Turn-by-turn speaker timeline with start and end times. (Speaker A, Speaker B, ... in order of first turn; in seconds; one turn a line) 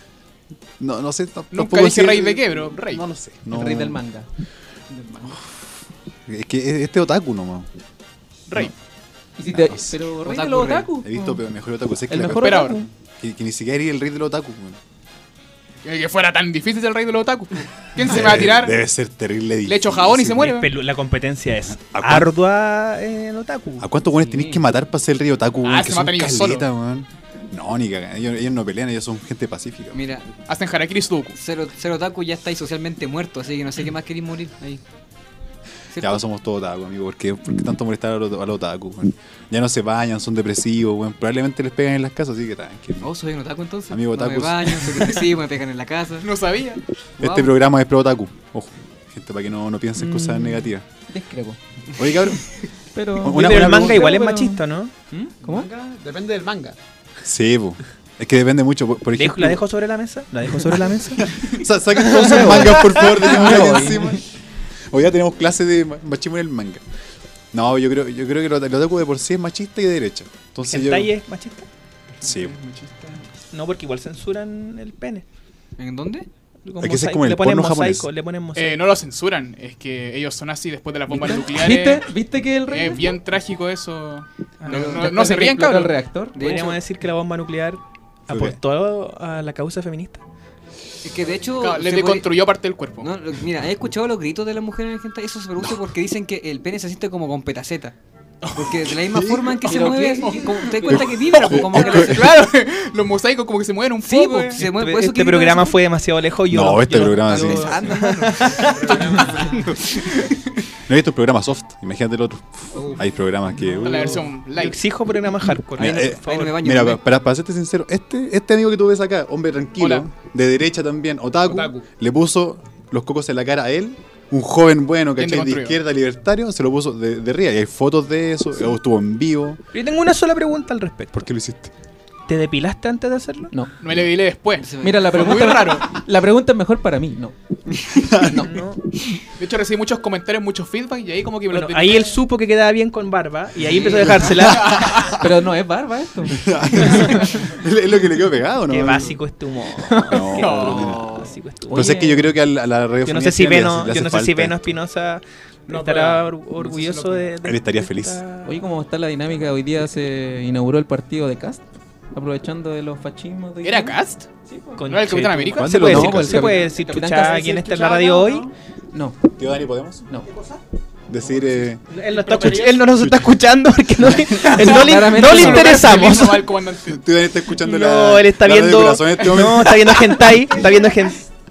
Speaker A: 0.8-4.0
Speaker B: 1.5-3.0
Speaker C: 3.5-4.3
Speaker D: 4.9-5.4
Speaker A: 6.3-7.7
Speaker B: 8.5-8.7
Speaker C: 9.4-11.4
Speaker A: 9.6-10.0
Speaker D: 10.2-10.9
Speaker A: 11.0-14.8
Speaker C: 12.1-12.8
Speaker E: 12.1-12.7
Speaker B: 12.3-12.8
Speaker B: 15.8-18.8
Speaker A: 18.0-20.6
Speaker B: 19.6-20.7
Speaker E: 20.4-23.9
Speaker A: 21.9-22.3
Speaker A: 23.8-30.0
Speaker D: 24.2-24.6
Speaker B: 25.6-26.6
Speaker D: 29.9-30.3
Speaker B: 30.5-31.4
Speaker D: 31.3-34.8
Speaker D: 35.9-36.2
Speaker A: 36.0-43.1
Speaker D: 43.0-46.3
Speaker A: 43.9-45.2
Speaker B: 46.2-46.8
Speaker D: 47.2-47.5
Speaker A: 47.2-50.8
Speaker C: 50.0-51.6
Speaker A: 52.0-52.5
Speaker C: 52.9-54.6
Speaker A: 53.2-54.1
Speaker E: 53.2-54.9
Speaker C: 55.4-55.7
Speaker F: 55.4-56.8
Speaker A: 57.2-59.6
Speaker E: 59.1-61.2
Speaker A: 61.2-64.2
Speaker E: 62.0-63.3
Speaker C: 62.0-64.2
Speaker A: 64.9-66.8
Speaker A: 67.5-71.1
Speaker E: 70.7-71.7
Speaker F: 72.2-73.3
Speaker A: 72.2-72.5
Speaker E: 73.5-75.2
Speaker D: 75.8-76.3
Speaker E: 76.6-78.8
Speaker A: 76.8-78.1
Speaker B: 78.5-82.1
Speaker C: 81.1-83.1
Speaker B: 82.7-86.0
Speaker E: 84.6-85.2
Speaker D: 84.7-85.2
Speaker C: 84.9-86.4
Speaker D: 86.3-86.8
Speaker E: 86.4-90.2
Speaker A: 88.3-88.6
Speaker D: 91.0-92.3
Speaker B: 91.5-93.1
Speaker D: 93.0-97.9
Speaker D: 98.5-102.3
Speaker A: 98.6-99.6
Speaker C: 99.7-101.5
Speaker B: 100.2-100.5
Speaker A: 100.9-102.4
Speaker B: 101.5-104.7
Speaker D: 104.0-105.8
Speaker E: 104.6-109.2
Speaker A: 106.5-107.8
Speaker C: 107.3-109.6
Speaker F: 108.5-109.6
Speaker D: 108.8-110.2
Speaker A: 110.7-114.3
Speaker B: 113.8-114.8
Speaker F: 113.9-114.3
Speaker E: 114.5-116.4
Speaker D: 115.8-117.0
Speaker A: 115.8-129.6
Speaker B: 119.8-120.0
Speaker F: 121.5-121.8
Speaker B: 125.2-125.8
Speaker E: 129.7-131.3
Speaker A: 131.1-131.7
Speaker E: 132.3-133.5
Speaker B: 133.8-135.9
Speaker D: 134.6-135.7
Speaker C: 134.8-137.3
Speaker A: 137.9-138.4
Speaker C: 138.2-138.5
Speaker E: 138.3-138.9
Speaker B: 139.4-142.2
Speaker E: 141.5-144.8
Speaker D: 143.6-144.5
Speaker B: 144.4-145.2
Speaker C: 145.1-147.1
Speaker A: 146.3-149.2
Speaker E: 146.8-147.1
Speaker E: 148.7-152.1
Speaker C: 149.9-150.2
Speaker A: 149.9-151.1
Speaker B: 150.3-151.1
Speaker D: 150.5-151.3
Speaker C: 151.7-152.3
Speaker A: 151.7-154.6
Speaker E: 153.0-158.7
Speaker F: 155.7-157.3
Speaker A: 157.4-158.2
Speaker C: 158.4-169.2
Speaker B: 163.6-164.2
Speaker E: 164.8-168.5
Speaker B: 164.8-165.8
Speaker A: 165.5-166.6
Speaker A: 169.3-170.0
Speaker A: 171.1-171.8
Speaker E: 171.9-176.6
Speaker F: 172.0-172.7
Speaker A: 172.9-173.4
Speaker C: 174.4-176.1
Speaker B: 174.5-177.0
Speaker A: 176.9-180.3
Speaker E: 177.5-181.3